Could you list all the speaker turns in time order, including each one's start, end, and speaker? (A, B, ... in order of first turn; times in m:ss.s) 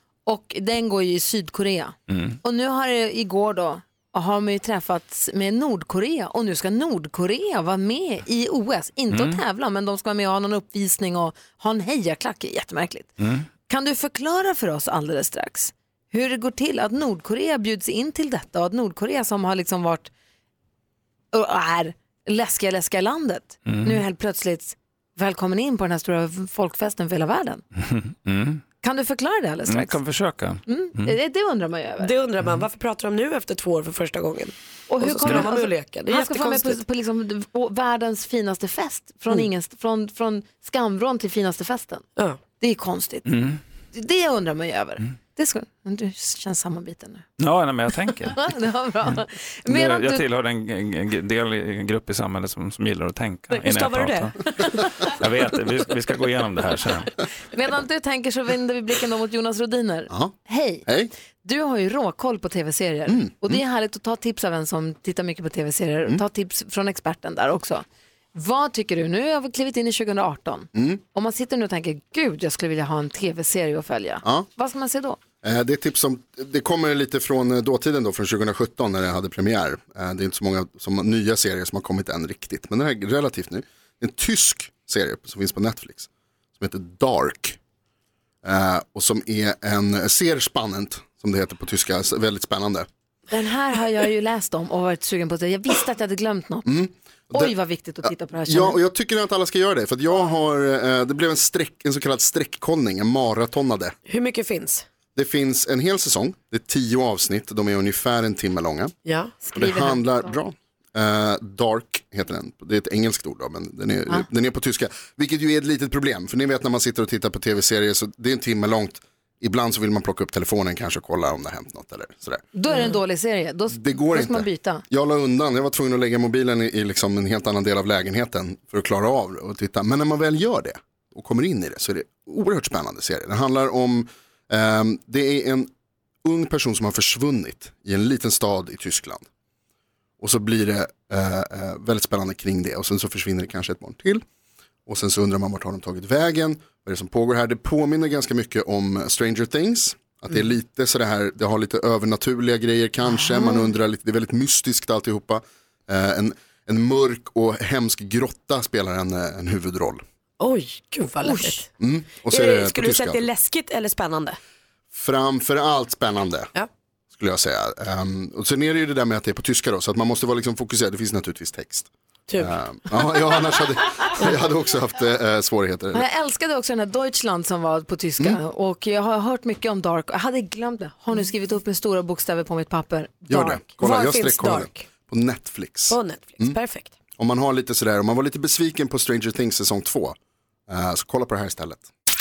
0:00.3-0:20.1 A
0:02.1-0:02.4 B
0:09.1-0:09.4 B
0:13.2-0:13.5 B
0:21.3-0:27.6 A
0:23.6-0:24.0 B
0:27.8-0:28.7 B
0:28.8-0:30.0 A
0:29.7-0:31.2 B
0:30.7-0:32.1 A
0:32.0-0:36.8 C
0:34.9-0:42.0 A
0:42.6-0:43.3 A
0:43.3-0:43.6 B
0:43.9-0:47.2 A
0:47.4-0:48.4 B
0:48.3-0:50.2 A
0:49.1-0:57.1 B
0:53.5-0:54.6 C
0:57.5-1:00.8 A
1:00.1-1:01.1 D
1:01.4-1:15.2 A
1:03.1-1:03.6 D
1:10.8-1:11.0 D
1:15.4-1:27.6 D
1:28.4-1:32.9 D
1:33.3-1:36.7 A
1:36.6-1:44.0 D
1:37.3-1:38.8 A
1:44.1-1:44.9 C
1:45.2-1:48.9 D
1:49.0-1:49.4 C
1:49.4-1:50.4 A
1:49.5-2:02.5 D
2:02.5-2:04.8 A
2:03.7-2:15.7 D
2:16.2-2:19.2 D
2:20.2-2:24.2 D
2:24.9-2:40.0 D
2:33.4-2:33.6 A
2:40.4-2:41.7 C
2:41.2-2:41.6 A
2:41.8-2:43.2 D
2:42.2-2:44.4 C
2:44.9-2:46.5 D
2:47.1-2:56.1 D
2:52.3-2:52.6 C
2:55.9-3:03.8 A
3:03.3-3:06.6 D
3:03.8-3:04.9 C
3:05.9-3:06.9 C
3:07.2-3:10.2 D
3:10.7-3:11.9 D